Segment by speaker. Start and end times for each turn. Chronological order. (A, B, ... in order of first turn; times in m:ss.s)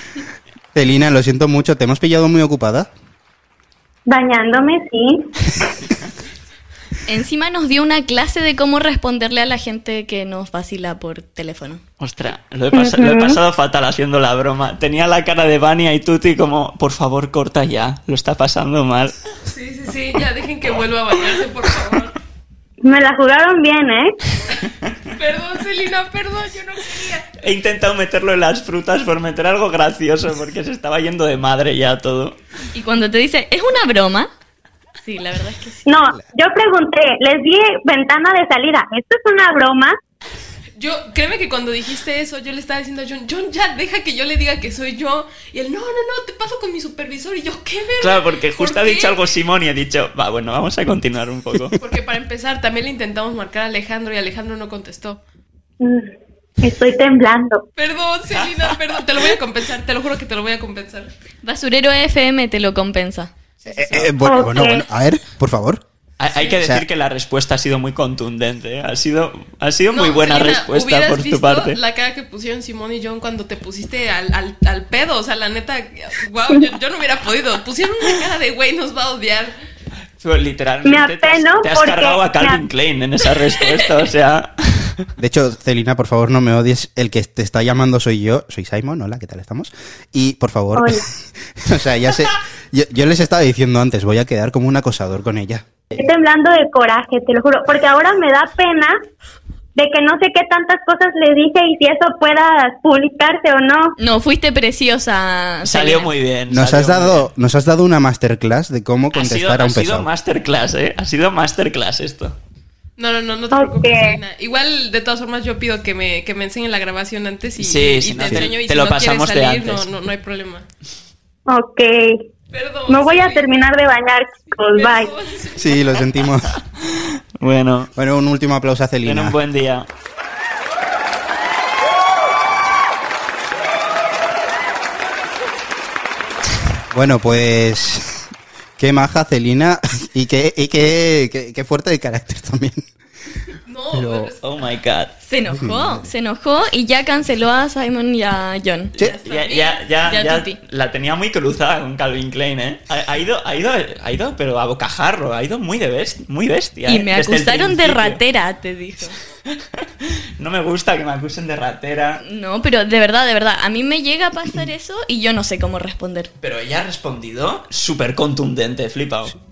0:00.7-0:02.9 A
0:04.1-0:05.3 B
0:07.1-0:11.8 C
0:12.0-0:19.2 D
0:12.7-0:13.4 B
0:19.5-0:22.2 E
0:22.8-0:24.2 B
0:25.1-0:27.3 E
0:27.4-0:32.4 D
0:32.7-0:34.3 C
0:35.0-0:35.9 C
0:35.9-0:40.0 B
0:40.8-0:49.2 E
0:48.0-0:51.8 D
0:51.8-0:55.2 E
0:55.8-0:57.6 B
0:57.8-1:01.1 E
1:01.4-1:03.3 C
1:03.6-1:04.2 E
1:03.7-1:05.8 A
1:04.2-1:04.8 B
1:06.2-1:11.8 D
1:06.6-1:06.8 A
1:09.9-1:19.6 E
1:20.2-1:25.1 D
1:20.8-1:22.6 B
1:25.2-1:35.7 A
1:30.8-1:31.1 B
1:35.9-1:39.0 B
1:39.8-1:44.0 B
1:44.0-1:46.1 C
1:45.6-1:47.3 D
1:46.5-1:50.1 A
1:49.1-1:52.4 D
1:53.0-2:00.7 E
1:53.5-1:54.2 B
1:57.6-1:59.9 D
1:58.2-1:58.5 A
2:01.5-2:02.3 B
2:02.5-2:03.7 E
2:02.9-2:05.1 B
2:04.5-2:06.1 E
2:05.6-2:06.6 A
2:06.8-2:07.9 D
2:08.0-2:09.4 A
2:09.0-2:09.9 D
2:16.9-2:22.9 A
2:23.7-2:24.7 E
2:23.9-2:24.3 A
2:24.4-2:25.2 D
2:25.2-2:29.0 C
2:25.5-2:26.1 A
2:29.0-2:29.9 E
2:29.0-2:38.2 D
2:30.1-2:30.6 C
2:36.9-2:39.2 C
2:39.5-2:42.2 D
2:42.2-2:46.3 C
2:46.4-2:49.4 D